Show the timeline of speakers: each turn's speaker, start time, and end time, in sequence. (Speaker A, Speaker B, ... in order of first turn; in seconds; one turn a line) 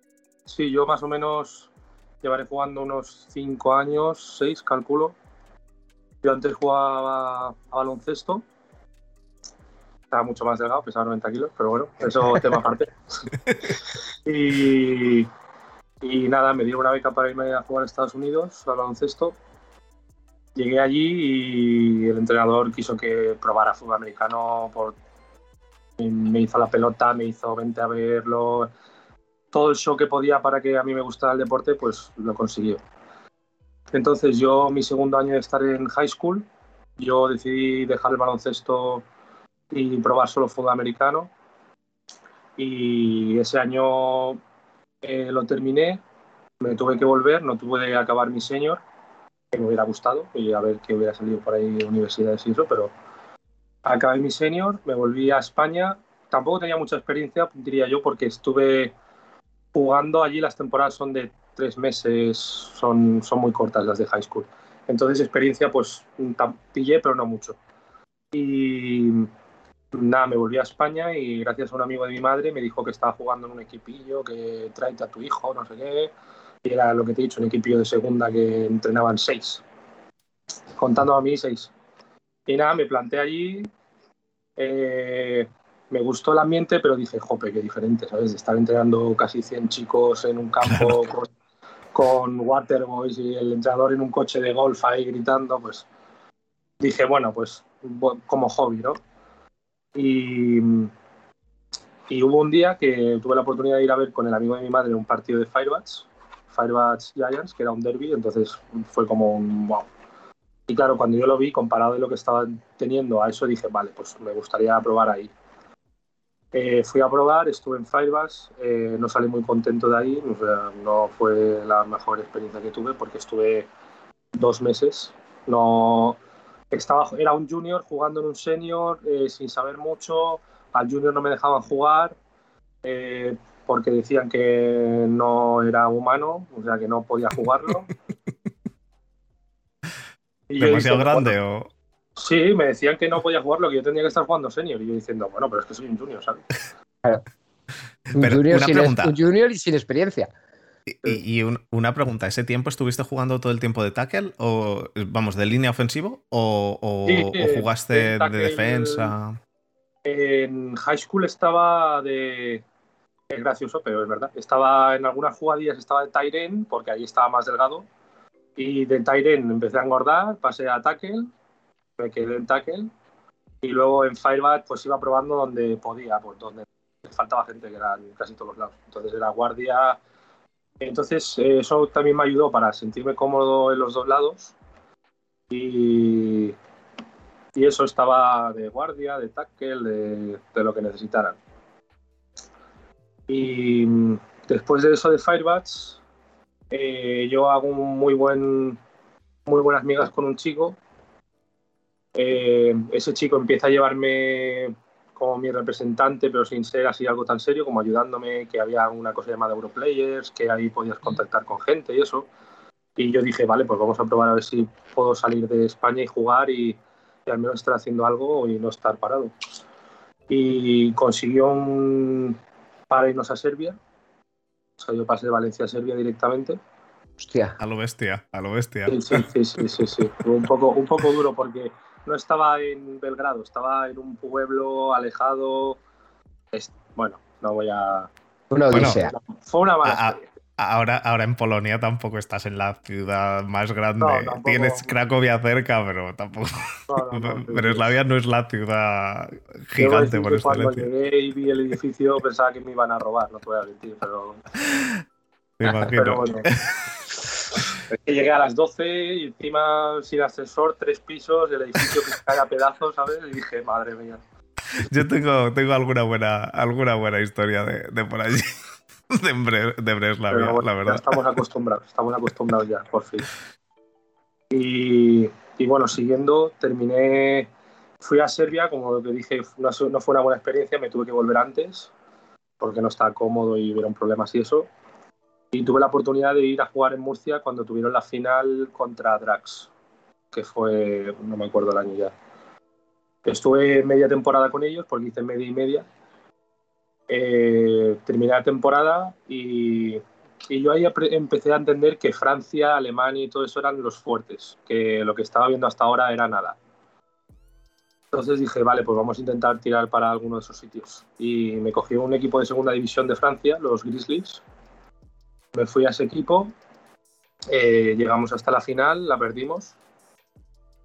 Speaker A: 0.5-1.7
Speaker A: 2.2-5.2
Speaker A: 6.2-8.4
Speaker A: 10.1-12.9
Speaker A: 14.3-15.3
Speaker A: 16.0-19.4
Speaker A: 20.6-25.0
Speaker A: 26.0-28.7
Speaker A: 29.5-32.8
Speaker A: 33.9-36.5
Speaker A: 37.0-39.0
Speaker A: 39.7-41.3
Speaker A: 42.6-44.4
Speaker A: 45.0-46.0
Speaker A: 46.6-48.8
Speaker A: 49.5-52.9
Speaker A: 53.9-58.9
Speaker A: 59.7-67.6
Speaker A: 68.3-69.3
Speaker A: 69.9-76.1
Speaker A: 76.6-79.6
Speaker A: 80.8-81.7
Speaker A: 82.5-83.7
Speaker A: 84.6-91.3
Speaker B: 90.6-91.0
Speaker A: 91.9-95.9
Speaker A: 96.8-99.0
Speaker A: 100.0-100.9
Speaker A: 102.1-109.9
Speaker A: 110.7-115.3
Speaker A: 116.5-123.7
Speaker A: 124.4-126.2
Speaker A: 126.7-132.2
Speaker A: 132.8-137.9
Speaker A: 140.5-141.3
Speaker B: 140.6-141.7
Speaker A: 142.2-146.5
Speaker B: 148.1-149.1
Speaker C: 148.2-150.3
Speaker B: 150.9-159.4
Speaker A: 157.1-159.1
Speaker A: 160.1-162.6
Speaker A: 163.3-167.9
Speaker A: 168.6-171.3
Speaker A: 172.0-172.9
Speaker A: 173.6-180.0
Speaker A: 180.8-184.6
Speaker A: 185.5-186.6
Speaker A: 187.6-191.4
Speaker A: 193.3-196.0
Speaker A: 196.7-198.8
Speaker A: 199.5-200.8
Speaker A: 202.2-212.3
Speaker A: 213.0-219.3
Speaker A: 220.3-222.4
Speaker A: 222.9-223.8
Speaker A: 224.8-226.6
Speaker C: 227.2-227.6
Speaker B: 227.6-230.1
Speaker A: 228.9-235.8
Speaker A: 236.5-238.1
Speaker C: 238.5-239.2
Speaker B: 238.7-239.0
Speaker A: 238.7-240.2
Speaker B: 239.8-250.9
Speaker A: 244.0-244.9
Speaker A: 246.9-247.9
Speaker A: 249.8-254.4
Speaker B: 255.6-257.0
Speaker A: 255.7-256.5
Speaker A: 257.9-264.2
Speaker B: 264.8-268.5
Speaker B: 269.1-271.2
Speaker A: 270.3-273.3
Speaker A: 274.5-277.5
Speaker A: 278.0-281.9
Speaker A: 282.6-284.7
Speaker A: 285.5-289.7
Speaker A: 290.3-292.1
Speaker A: 293.2-295.9
Speaker A: 297.1-306.6
Speaker A: 308.1-314.4
Speaker A: 315.5-316.5
Speaker A: 317.5-319.8